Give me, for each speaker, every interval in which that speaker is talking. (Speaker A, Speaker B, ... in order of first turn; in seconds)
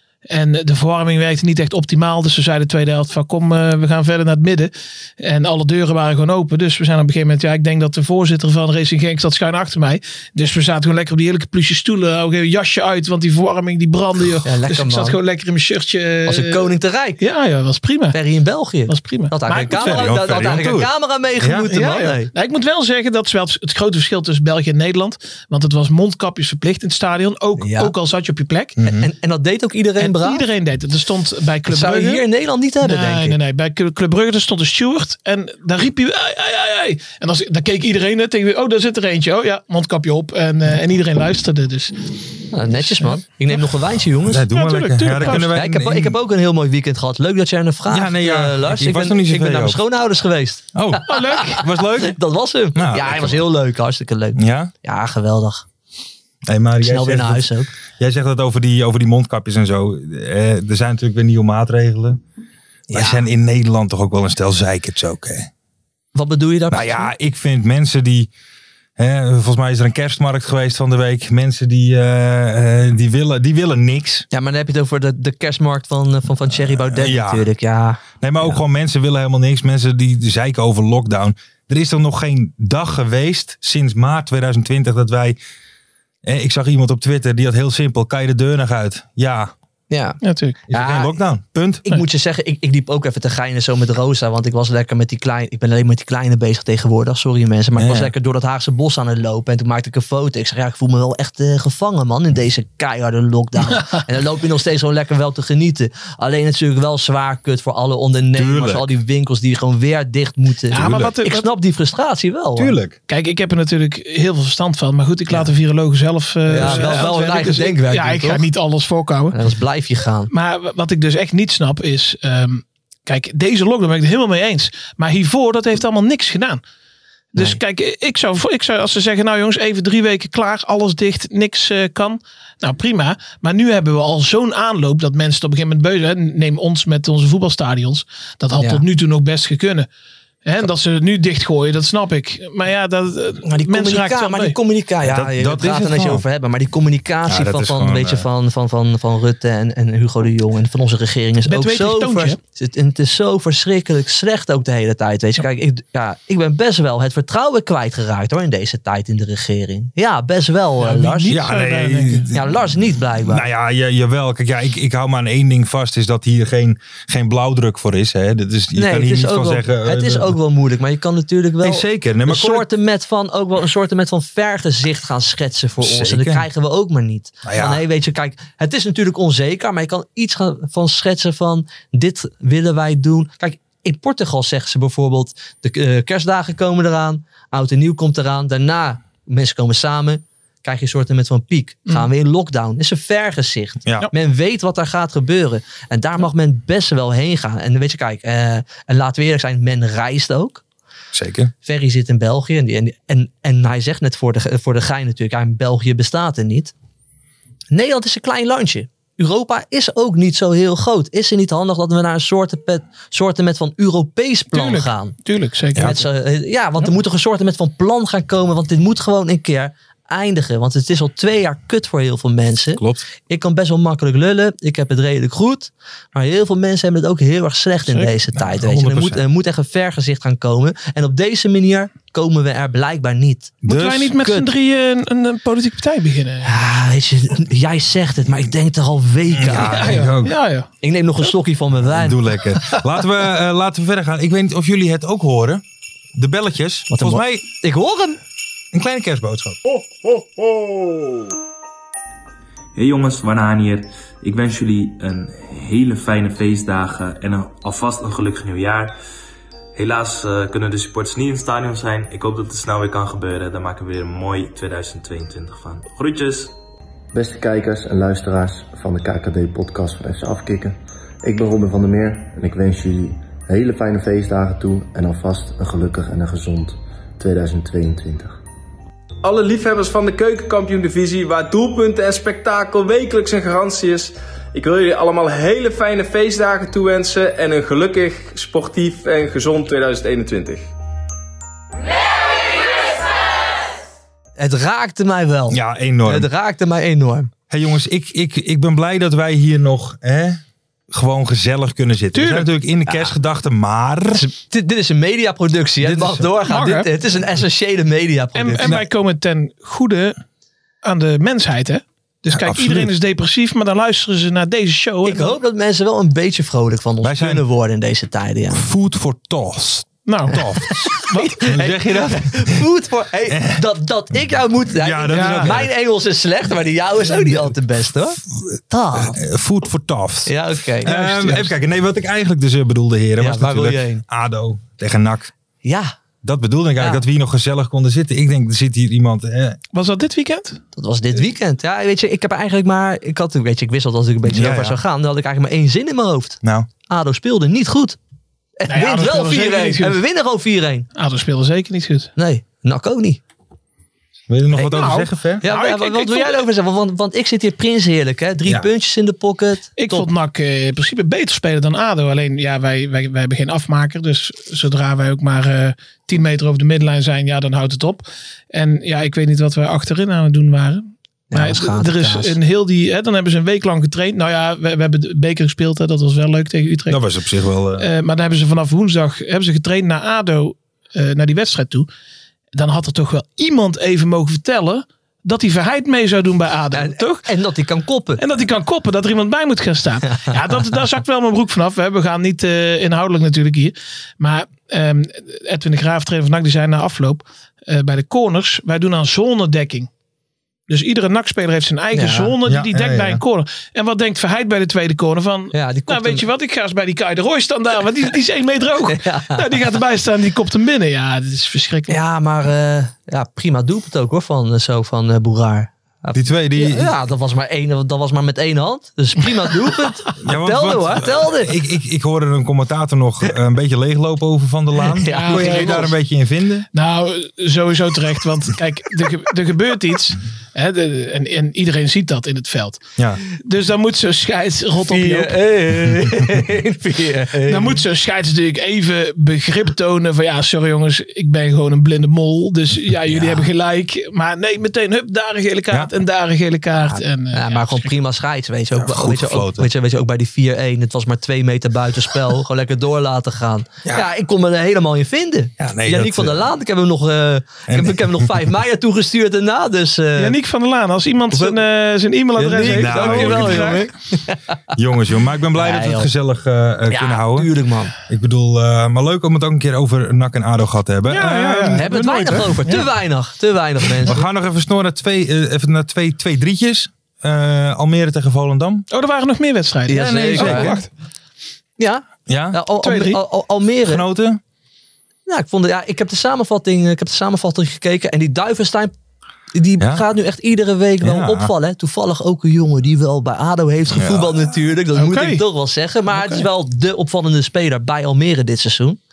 Speaker A: 0.3-16.7, 17.2-18.1, 18.9-20.1, 21.7-28.8, 30.0-32.2, 32.8-41.9, 42.7-43.2, 44.5-45.5, 51.1-51.6, 90.2-90.6, 110.7-111.5, 113.1-119.3, 120.3-126.6, 127.3-139.9, 140.4-144.6, 151.4-152.4, 160.8-162.3, 214.5-216.0, 227.9-228.1, 233.6-236.5, 239.6-240.7, 302.1-302.5, 306.4-306.9, 308.3-310.2, 310.8-315.4, 320.1-321.4, 325.1-325.6, 330.9-331.4, 339.7-340.6, 348.7-350.0, 350.9-352.1, 354.7-356.4, 359.8-377.0, 377.8-381.9, 382.5-387.3, 388.2-399.9, 400.7-412.0, 425.1-425.9, 426.7-432.8, 433.4-435.3, 437.5-447.9, 460.2-463.9, 471.1-472.9, 478.9-480.9, 482.8-483.2, 494.9-495.4, 496.1-496.4
Speaker B: 14.4-15.2, 16.3-17.2, 18.1-22.3, 27.6-27.9, 28.8-30.4, 31.7-33.4, 42.5-44.4, 45.2-51.4, 52.0-55.6, 56.8-57.7, 62.9-63.2, 66.1-67.1, 74.3-78.6, 89.9-91.1, 91.8-112.7, 116.5-118.4, 119.3-120.3, 143.4-161.3, 162.3-163.4, 168.7-200.6, 201.6-206.7, 207.7-215.2, 215.8-233.6, 236.4-240.0, 240.8-242.2, 246.9-248.2, 294.4-297.3, 302.9-303.1, 304.1-308.8, 315.0-318.6, 320.9-329.2, 330.2-331.4, 333.2-334.0, 335.6-335.9, 340.7-348.0, 348.6-350.9, 352.1-353.2, 354.6-360.1, 371.3-372.3, 386.7-388.2, 401.9-402.3, 405.5-406.2, 408.9-409.4, 411.9-421.5, 424.9-425.9, 434.9-437.8, 446.9-460.4, 461.3-461.6, 462.4-464.4, 465.5-466.1, 466.9-467.9, 471.7-474.2, 479.9-480.8, 481.8-484.0, 485.3-488.9, 489.5-499.0
Speaker C: 19.5-20.9, 21.4-21.9, 28.8-29.1, 44.2-46.2, 47.9-49.8, 50.7-52.2, 52.7-53.4, 54.4-54.7, 56.5-62.2, 62.9-65.5, 66.7-68.3, 69.0-74.2, 76.7-77.5, 78.2-85.4, 86.2-89.5, 90.7-91.9, 97.8-98.1, 108.3-108.9, 110.7-111.1, 112.5-113.0, 116.5-116.9, 145.1-146.2, 147.3-148.3, 161.3-162.5, 163.2-170.3, 171.6-172.7, 175.8-176.4, 177.4-177.8, 201.1-201.5, 228.3-229.2, 233.6-234.2, 239.3-240.3, 241.8-245.6, 246.1-247.5, 248.7-249.6, 295.5-296.3, 297.5-300.4, 300.9-304.2, 305.8-306.3, 312.3-312.9, 317.0-317.4, 318.5-320.8, 321.4-322.6, 323.3-323.6, 324.7-325.7, 327.1-327.5, 328.2-335.3, 336.2-339.6, 344.3-344.8, 346.4-346.7, 354.3-355.4, 376.9-377.9, 402.4-403.2, 416.1-416.9, 420.2-426.7, 448.7-449.7, 455.6-456.5, 457.7-458.4, 462.6-463.8, 464.7-467.5, 468.1-471.9, 474.0-478.9, 479.9-480.8, 482.3-482.6, 483.8-484.4, 491.0-491.5, 493.9-494.5
Speaker D: 252.8-258.9, 259.7-266.5
Speaker E: 267.1-278.4
Speaker F: 279.2-290.7